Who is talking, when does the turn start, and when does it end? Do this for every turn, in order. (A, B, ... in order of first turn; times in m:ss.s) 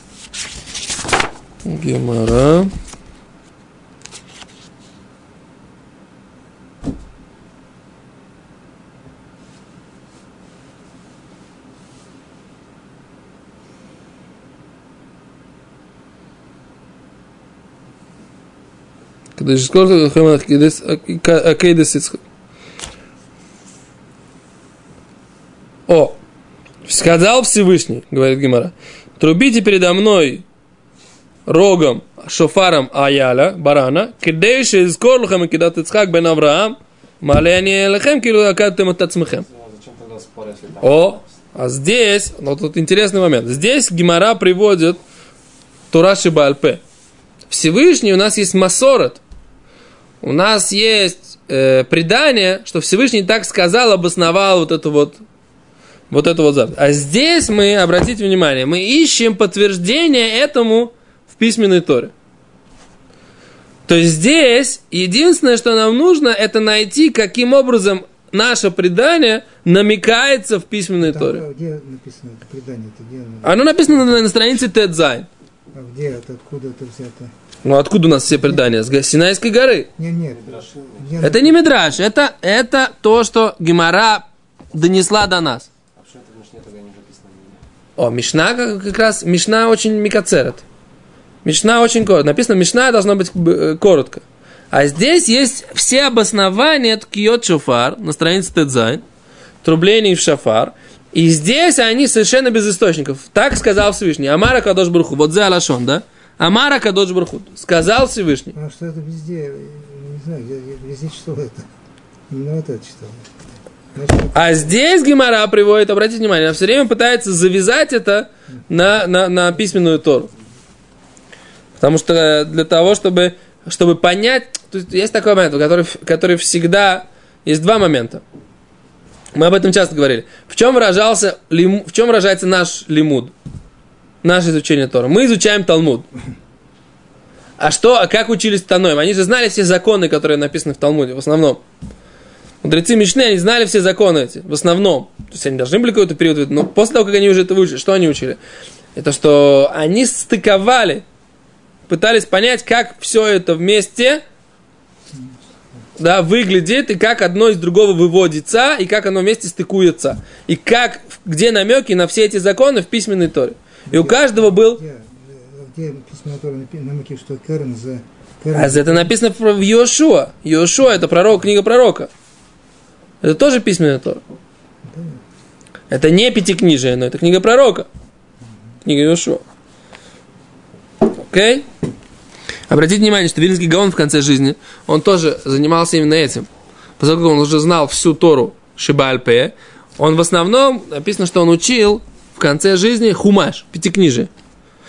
0:01.6-0:02.7 A
0:19.4-0:22.2 A
0:25.9-0:26.2 A
0:26.8-0:30.4 A
0:31.5-0:39.4 A
0:39.4-0:41.2 B
0:40.8-0:45.0 A
0:45.9-0:46.8 A
0:47.5-0:49.2 A
0:50.2-0:55.2 A
0:56.1-1:02.1 A
1:03.9-1:11.4 A
1:11.0-1:14.1 C
1:13.4-1:15.3 A
1:15.7-1:17.3 C
1:17.6-1:19.9 A
1:20.0-1:21.6 C
1:20.3-1:21.2 B
1:21.2-1:25.7 A
1:25.9-1:27.6 B
1:28.0-1:30.6 A
1:31.4-1:39.0 A
1:39.6-1:48.5 A
1:48.5-1:51.7 C
1:52.3-1:53.4 C
1:53.9-1:54.8 C
1:54.3-2:00.3 A
2:01.8-2:08.2 A
2:09.3-2:13.3 A
2:14.2-2:16.1 A
2:17.6-2:21.6 A
2:22.6-2:28.4 A
2:28.9-2:31.0 A
2:31.9-2:34.2 A
2:36.0-2:44.8 A
2:43.9-2:49.1 C
2:48.5-2:52.1 A
2:53.2-2:54.2 A
2:54.8-2:55.2 C
2:55.9-2:57.9 A
2:58.8-2:59.4 A
3:01.2-3:01.6 A
3:02.7-3:06.5 A
3:07.0-3:14.3 A